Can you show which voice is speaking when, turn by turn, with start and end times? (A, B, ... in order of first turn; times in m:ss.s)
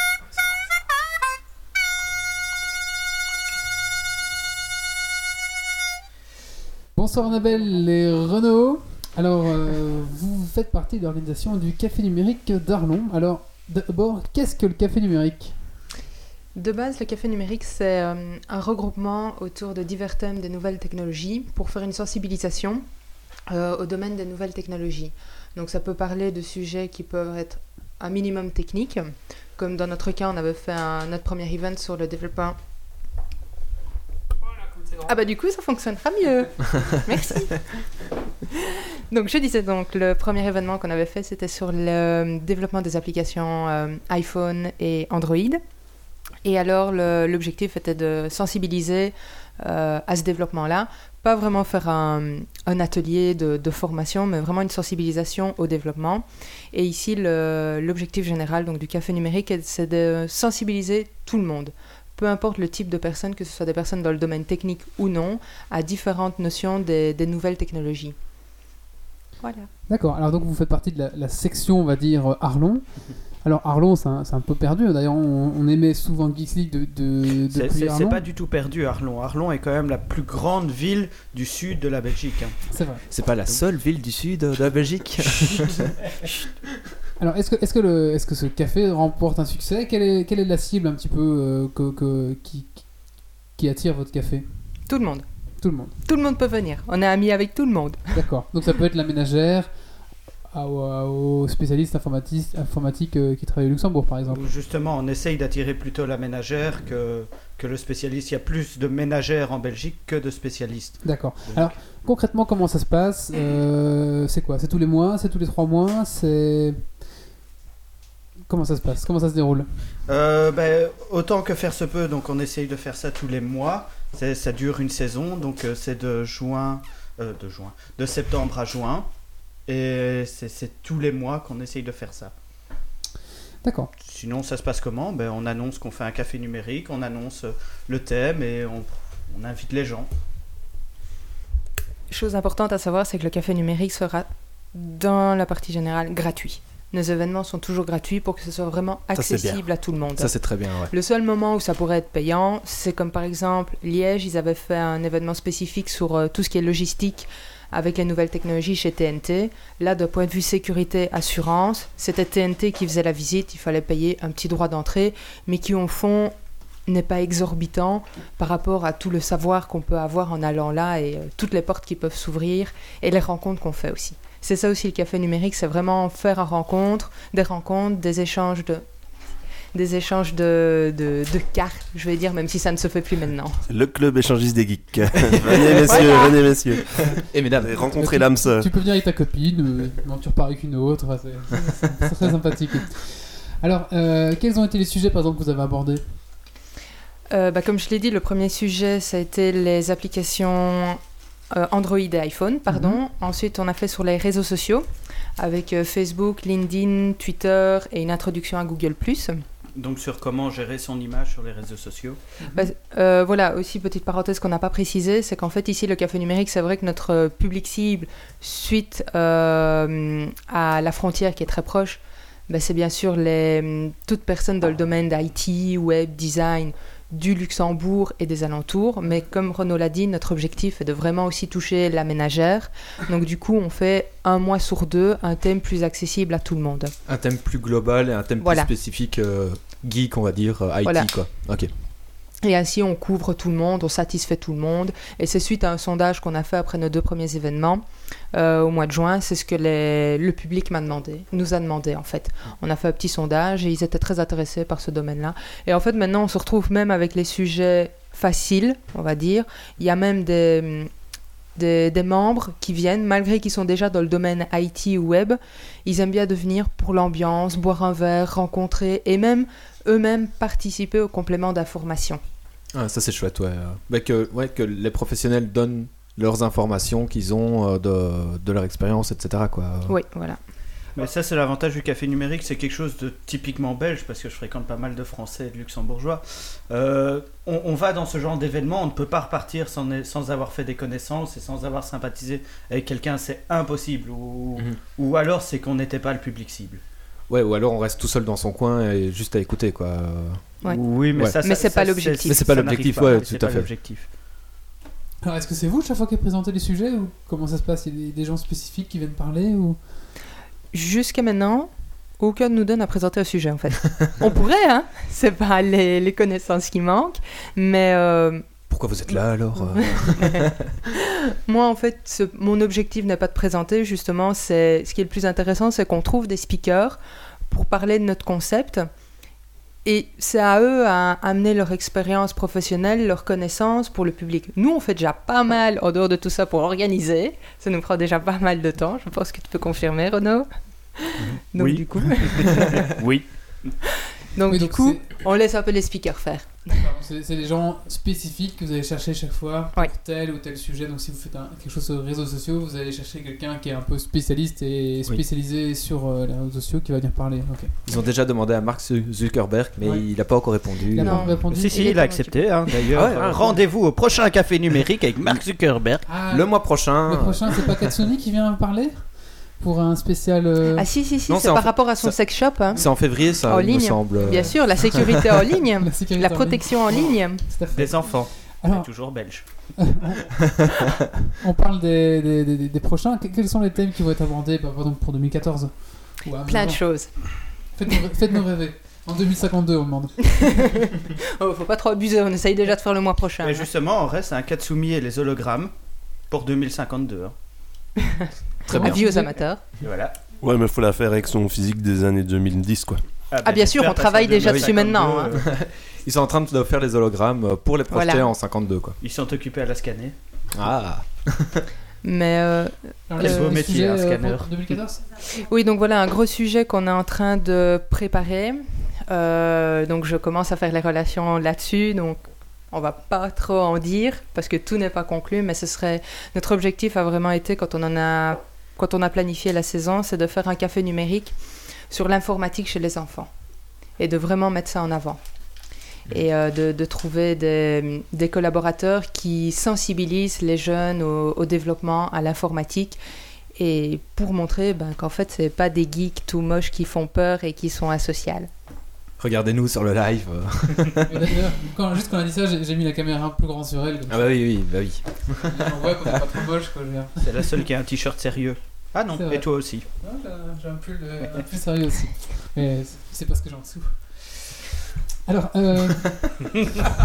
0:07.0-0:15.6 A
0:16.6-0:22.8 B
0:23.5-0:32.6 B
0:35.1-0:37.6 B
0:38.5-0:45.6 B
0:46.4-1:08.2 B
1:09.4-1:09.7 B
1:09.9-1:12.8 A
1:13.4-1:18.2 A
1:17.5-1:22.6 C
1:22.7-1:23.0 A
1:23.1-1:25.9 D
1:27.2-1:32.8 A
1:33.6-1:34.5 A
1:34.9-1:35.2 B
1:35.6-1:35.9 A
1:36.1-1:38.2 B
1:38.1-1:39.7 A
1:40.5-1:44.4 A
1:44.3-1:51.7 C
1:51.0-1:56.8 A
1:58.5-1:59.7 A
2:00.1-2:09.1 C
2:09.7-2:12.3 C
2:13.6-2:13.9 A
2:14.0-2:20.1 C
2:22.1-2:46.3 B
2:29.2-2:29.6 D
2:30.2-2:30.9 D
2:46.9-2:58.8 B
2:59.7-3:03.6 B
3:03.7-3:08.7 E
3:05.2-3:06.0 D
3:05.8-3:06.4 B
3:07.3-3:07.8 D
3:08.0-3:16.0 A
3:17.3-3:21.0 B
3:21.5-3:24.8 B
3:22.7-3:23.0 A
3:25.4-3:29.4 B
3:29.8-3:32.2 C
3:32.4-3:32.7 A
3:32.5-3:56.9 B
3:57.1-4:01.7 D
3:58.4-3:58.7 B
4:02.4-4:07.8 B
4:08.3-4:20.9 B
4:21.6-4:32.2 B
4:32.7-4:40.0 D
4:39.9-4:40.4 B
4:41.0-4:56.8 C
4:57.3-5:00.4 D
5:00.7-5:04.1 C
5:01.4-5:02.5 B
5:02.2-5:03.7 D
5:05.2-5:09.8 A
5:10.7-5:18.4 B
5:18.7-5:20.7 D
5:19.6-5:27.0 B
5:27.5-5:28.9 B
5:29.8-5:42.9 B
5:41.2-5:43.7 C
5:44.3-5:46.8 B
5:44.5-5:45.0 A
5:46.8-5:57.8 A
5:57.9-6:01.3 D
6:00.9-6:02.2 A
6:01.0-6:02.5 B
6:01.5-6:06.0 C
6:02.8-6:03.6 D
6:06.1-6:09.1 A
6:06.3-6:07.6 D
6:09.6-6:10.9 A
6:10.8-6:12.9 B
6:11.3-6:12.2 D
6:12.7-6:15.2 D
6:13.4-6:17.4 B
6:15.8-6:18.9 A
6:17.7-6:19.4 C
6:19.8-6:26.8 A
6:26.5-6:27.1 B
6:27.8-6:30.8 A
6:30.3-6:33.7 B
6:33.4-6:35.7 C
6:36.3-6:37.3 C
6:38.0-6:39.6 B
6:38.7-6:39.0 D
6:38.7-6:39.3 A
6:39.8-6:40.2 C
6:40.4-6:43.0 E
6:43.3-6:45.5 C
6:43.4-6:45.4 B
6:44.4-6:44.7 D
6:45.3-6:49.0 D
6:47.9-6:48.3 B
6:49.0-6:50.2 C
6:50.5-6:51.7 D
6:52.0-6:53.7 B
6:53.1-6:55.0 A
6:53.2-6:54.5 C
6:55.2-7:11.3 B
7:11.9-7:13.3 B
7:14.0-7:15.2 B
7:16.1-7:23.0 B
7:23.6-7:28.5 B
7:29.2-7:31.2 D
7:31.1-7:34.4 A
7:34.1-7:36.2 D
7:35.4-7:37.2 A
7:37.2-7:39.8 C
7:39.1-7:39.5 A
7:40.0-7:44.6 A
7:45.3-7:46.4 A